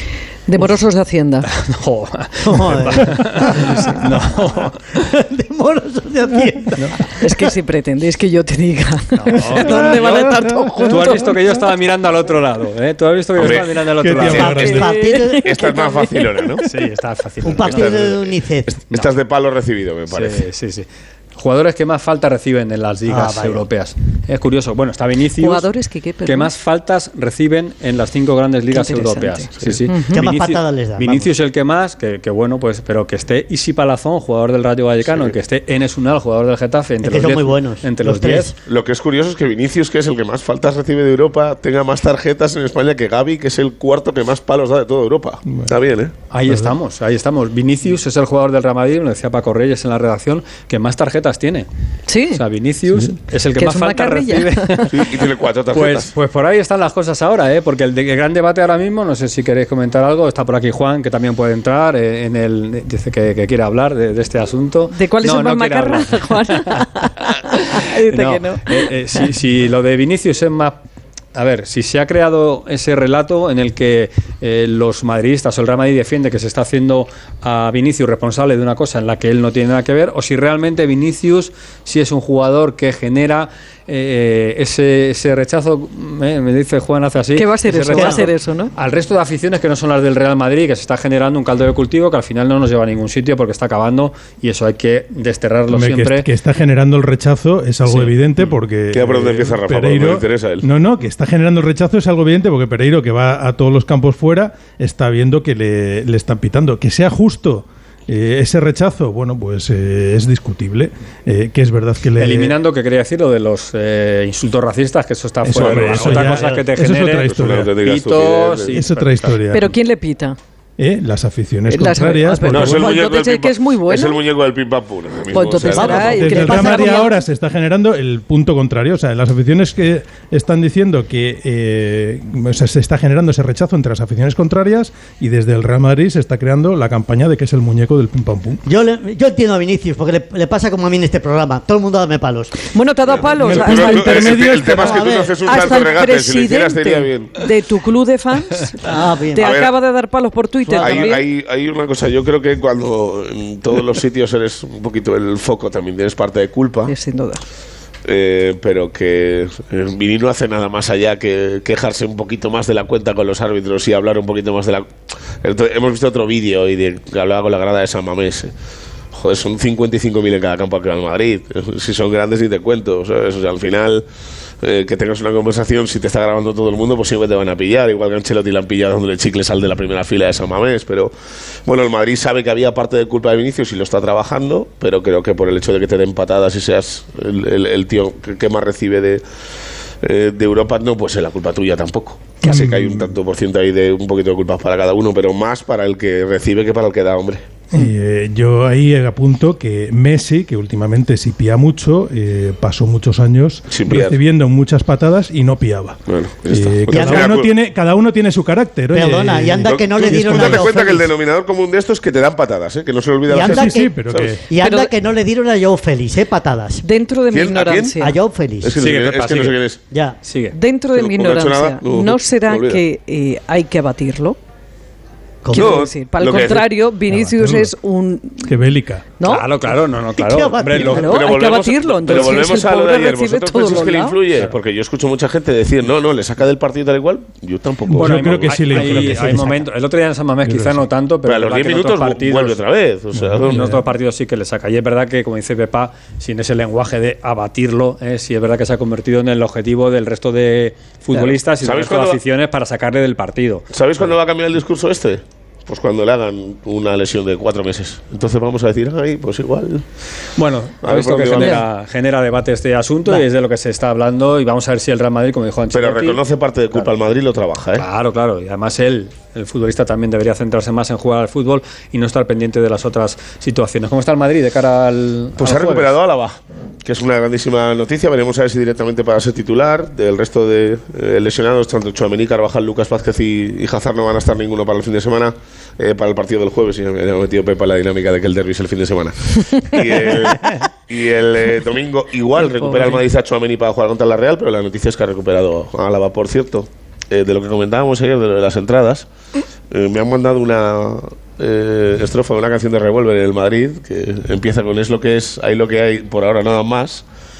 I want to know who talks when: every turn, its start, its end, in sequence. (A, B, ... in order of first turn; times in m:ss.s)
0:00.5-0:01.5 A
0:01.4-0:04.8 B
0:02.4-0:04.0 C
0:04.9-0:07.5 C
0:07.2-0:09.9 A
0:09.1-0:10.2 B
0:09.4-0:11.2 C
0:09.8-0:11.1 D
0:10.8-0:14.9 B
0:13.4-0:13.8 E
0:14.0-0:14.8 D
0:14.2-0:15.7 C
0:14.4-0:16.6 A
0:15.4-0:16.6 E
0:16.6-0:17.9 B
0:17.4-0:18.7 C
0:17.5-0:20.4 E
0:20.1-0:25.7 B
0:23.1-0:23.6 C
0:25.3-0:26.5 A
0:26.2-0:38.5 B
0:28.7-0:30.2 A
0:30.1-0:31.3 C
0:35.1-0:35.3 E
0:37.0-0:38.6 C
0:38.6-0:46.1 E
0:45.5-0:45.7 D
0:46.3-0:51.7 B
0:52.1-0:52.4 A
0:52.3-0:55.1 B
0:53.6-0:54.9 A
0:54.9-0:56.1 E
0:55.7-1:10.8 B
1:04.9-1:08.9 A
1:11.3-1:36.3 B
1:27.4-1:28.7 A
1:27.9-1:28.2 C
1:35.7-1:52.5 D
1:37.8-1:38.1 B
1:38.9-1:40.6 E
1:52.2-1:57.3 B
1:55.4-1:57.7 D
1:55.9-1:56.6 C
1:57.2-1:58.8 E
1:57.8-1:59.3 B
1:58.7-1:59.7 D
1:59.5-2:00.4 A
2:00.8-2:03.0 D
2:01.7-2:04.2 A
2:02.5-2:06.4 E
2:05.3-2:07.2 A
2:05.7-2:07.1 C
2:05.9-2:18.6 D
2:18.6-2:22.7 C
2:22.7-2:24.3 A
2:23.1-2:27.5 E
2:23.3-2:25.1 D
2:24.8-2:25.4 C
2:25.4-2:31.2 A
2:28.8-2:29.5 C
2:29.3-2:29.8 E
2:30.6-2:31.2 C
2:30.8-2:36.9 E
2:36.8-2:37.4 A
2:38.1-2:44.9 E
2:45.4-2:48.5 E
2:49.1-2:54.1 E
2:54.6-3:01.1 E
3:01.6-3:09.2 E
3:10.0-3:17.4 E
3:12.4-3:13.1 D
3:17.7-3:30.8 D
3:23.7-3:24.2 E
3:26.1-3:27.5 E
3:26.9-3:27.3 C
3:28.9-3:31.1 C
3:29.6-3:34.4 E
3:33.3-3:36.8 C
3:33.4-3:34.4 D
3:34.6-3:34.9 A
3:36.8-3:38.2 A
3:37.3-3:38.0 E
3:38.0-3:38.8 C
3:38.6-3:39.8 E
3:38.8-3:39.6 B
3:39.9-3:40.2 C
3:40.2-3:40.6 B
3:40.5-3:44.4 A
3:40.9-3:42.8 E
3:45.4-3:45.8 C
3:45.5-3:48.5 A
3:45.5-3:46.7 E
3:47.1-3:47.7 D
3:48.4-3:49.1 D
3:49.2-3:49.4 A
3:49.2-3:51.1 B
3:50.2-3:51.2 C
3:50.8-3:59.0 E
3:50.8-3:54.2 A
3:52.1-3:52.4 B
3:57.8-3:59.6 D
3:57.9-4:02.6 B
4:00.4-4:00.8 D
4:01.2-4:03.6 E
4:03.1-4:03.8 D
4:03.4-4:13.6 B
4:11.6-4:12.2 E
4:13.7-4:19.8 E
4:20.4-4:26.9 B
4:20.8-4:21.6 E
4:25.7-4:27.8 E
4:27.8-4:36.0 B
4:35.4-4:59.1 E
4:52.4-4:53.0 A
4:59.7-5:07.0 E